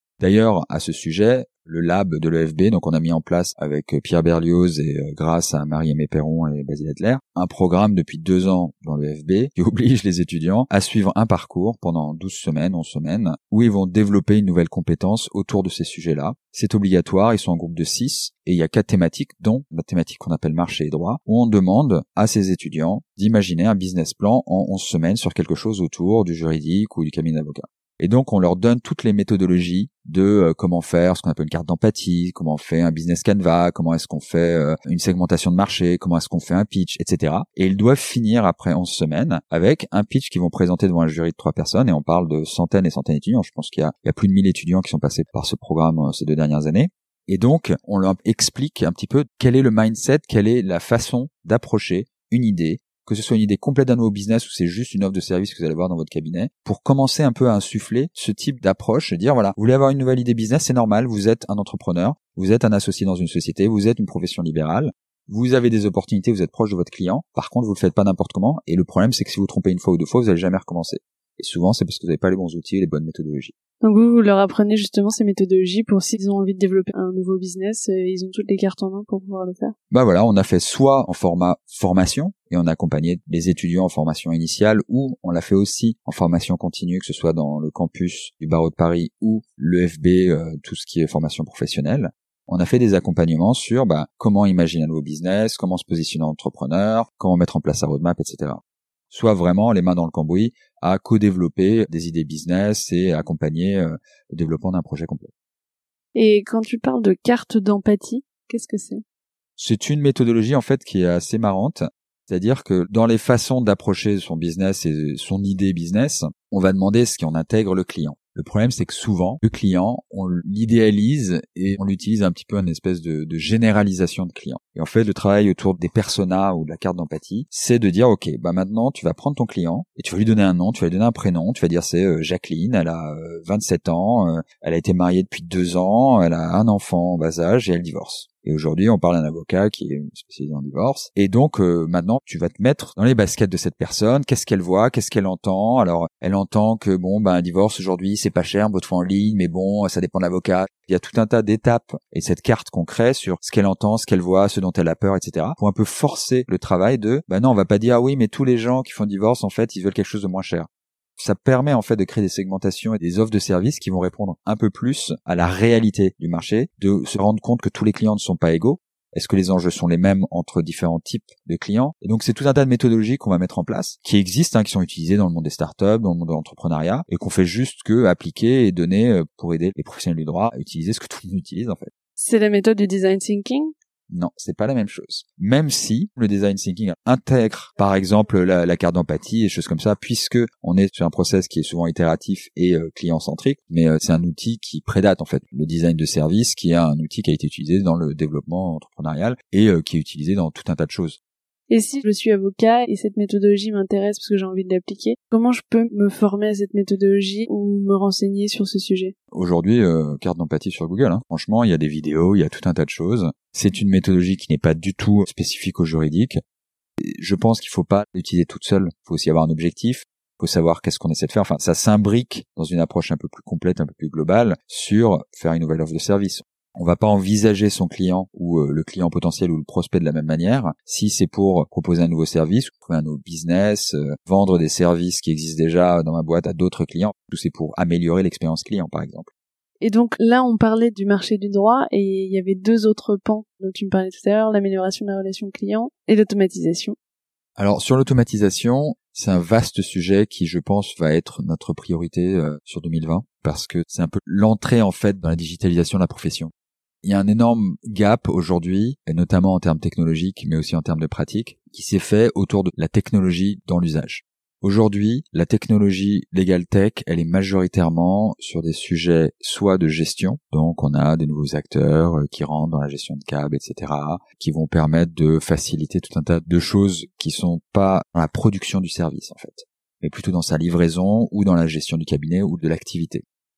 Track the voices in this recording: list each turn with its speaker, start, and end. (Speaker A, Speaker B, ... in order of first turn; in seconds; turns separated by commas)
Speaker A: 0.2-73.5, Speaker B: 73.8-79.7, Speaker A: 79.9-105.3, Speaker B: 106.1-109.0, Speaker A: 109.6-181.9, Speaker B: 182.2-183.7, Speaker A: 184.1-201.2, Speaker B: 201.7-209.1, Speaker A: 209.3-216.4, Speaker A: 217.0-239.3, Speaker B: 239.8-246.9, Speaker A: 247.6-256.5, Speaker A: 257.0-283.2